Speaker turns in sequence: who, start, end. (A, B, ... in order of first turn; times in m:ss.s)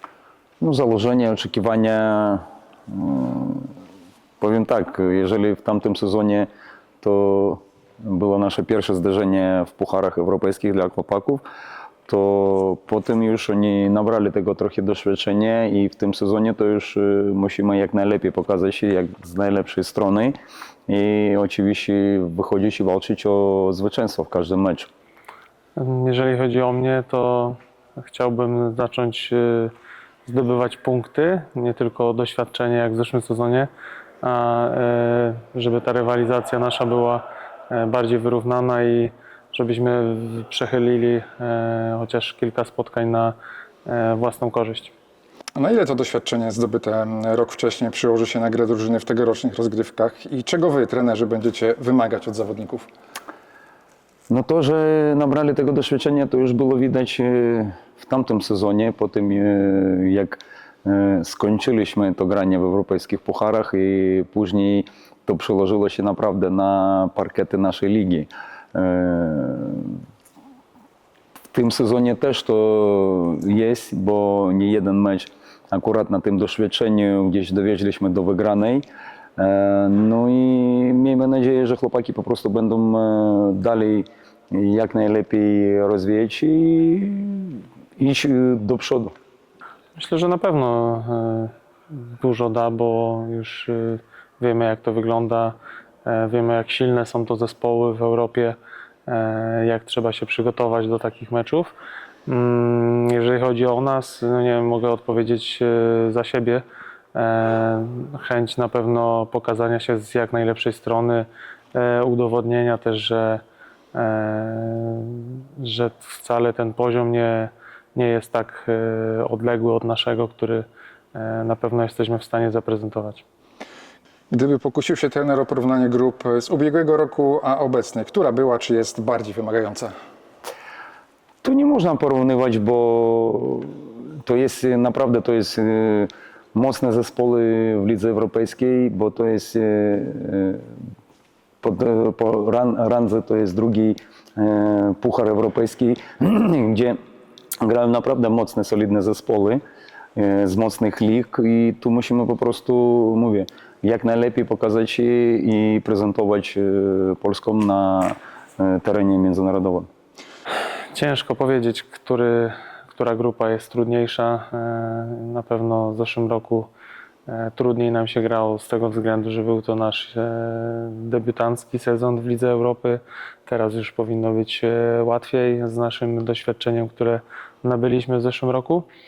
0:00.6-0:03.7 A
0:04.4-0:06.5 A
0:07.0-0:11.4 A
0:12.1-0:20.4 A
0:20.9-0:24.9 A
0:25.8-0:29.7 B
0:30.2-0:33.7 B
0:34.2-0:43.3 B
0:43.8-0:44.9 B
0:45.6-0:52.9 C
0:54.3-1:10.0 A
1:11.5-1:18.8 A
1:19.4-1:29.1 A
1:30.0-1:41.7 B
1:42.3-1:53.4 B
1:53.9-2:03.2 B
2:04.3-2:09.9 C
2:11.4-2:20.7 A
2:21.6-2:27.0 A
2:27.6-2:29.6 A
2:30.2-2:39.9 A
2:40.9-2:46.7 B
2:47.3-2:58.9 B